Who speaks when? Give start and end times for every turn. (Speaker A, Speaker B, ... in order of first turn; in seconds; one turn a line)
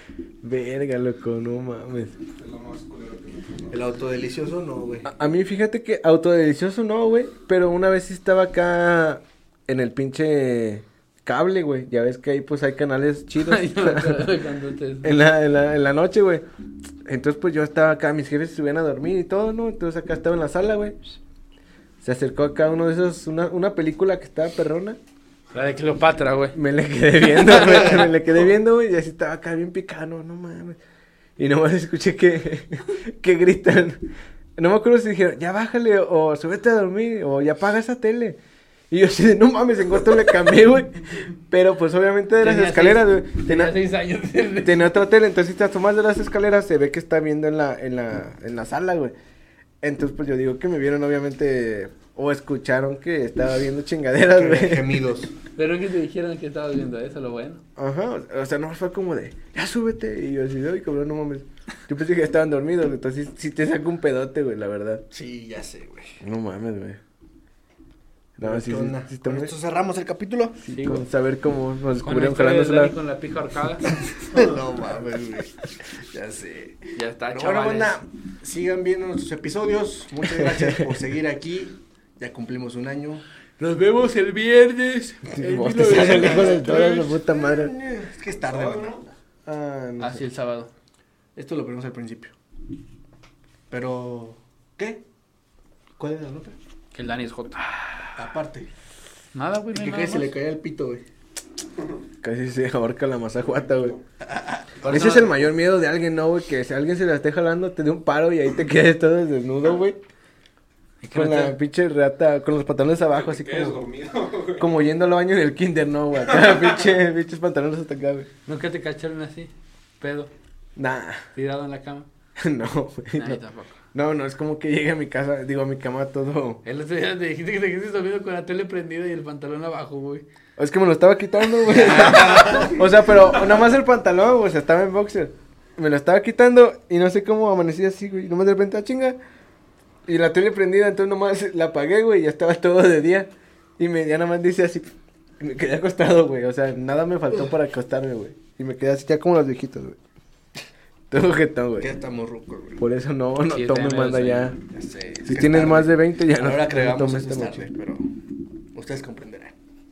Speaker A: 0.4-2.1
Speaker B: 2.3-3.8
Speaker C: 3.7-5.1
Speaker A: 5.0-14.3
Speaker D: 13.4-15.1
Speaker A: 15.0-16.4
Speaker A: 17.0-20.9
Speaker A: 22.0-25.0
Speaker D: 25.5-26.6
Speaker A: 26.5-30.8
Speaker D: 27.4-27.9
Speaker A: 31.4-34.0
Speaker A: 34.6-38.4
Speaker A: 38.9-43.7
Speaker D: 42.4-44.9
Speaker A: 44.6-49.1
Speaker A: 49.8-55.0
Speaker C: 54.3-55.3
Speaker D: 55.5-57.6
Speaker A: 57.8-65.0
Speaker C: 65.1-66.2
Speaker A: 66.2-67.0
Speaker A: 68.4-69.5
Speaker C: 68.4-70.6
Speaker A: 70.6-72.9
Speaker D: 70.7-71.0
Speaker D: 72.0-73.9
Speaker C: 74.2-83.2
Speaker D: 77.0-78.0
Speaker A: 80.4-80.9
Speaker D: 83.6-87.2
Speaker A: 85.3-87.7
Speaker C: 86.0-89.0
Speaker B: 88.4-89.0
Speaker A: 89.5-90.2
Speaker D: 90.0-90.7
Speaker C: 91.3-92.3
Speaker C: 93.7-95.0
Speaker C: 96.0-96.5
Speaker D: 96.9-97.6
Speaker C: 98.2-98.7
Speaker D: 99.3-100.3
Speaker C: 99.7-101.0
Speaker A: 102.2-104.0
Speaker B: 103.5-104.0
Speaker C: 104.3-105.2
Speaker D: 104.8-105.3
Speaker A: 104.9-110.0
Speaker D: 111.0-111.6
Speaker A: 111.1-113.8
Speaker B: 113.1-114.7
Speaker A: 114.6-118.3
Speaker B: 116.4-116.7
Speaker D: 118.5-120.3
Speaker A: 120.8-121.2
Speaker D: 121.3-122.1
Speaker A: 122.4-123.4
Speaker D: 123.1-123.8
Speaker A: 123.9-126.6
Speaker D: 126.6-130.2
Speaker A: 130.6-139.2
Speaker C: 131.7-132.8
Speaker A: 140.1-150.0
Speaker A: 151.1-151.9
Speaker C: 151.8-152.8
Speaker A: 152.8-154.6
Speaker D: 153.5-154.5
Speaker C: 154.6-158.0
Speaker A: 155.2-157.6
Speaker C: 158.7-159.5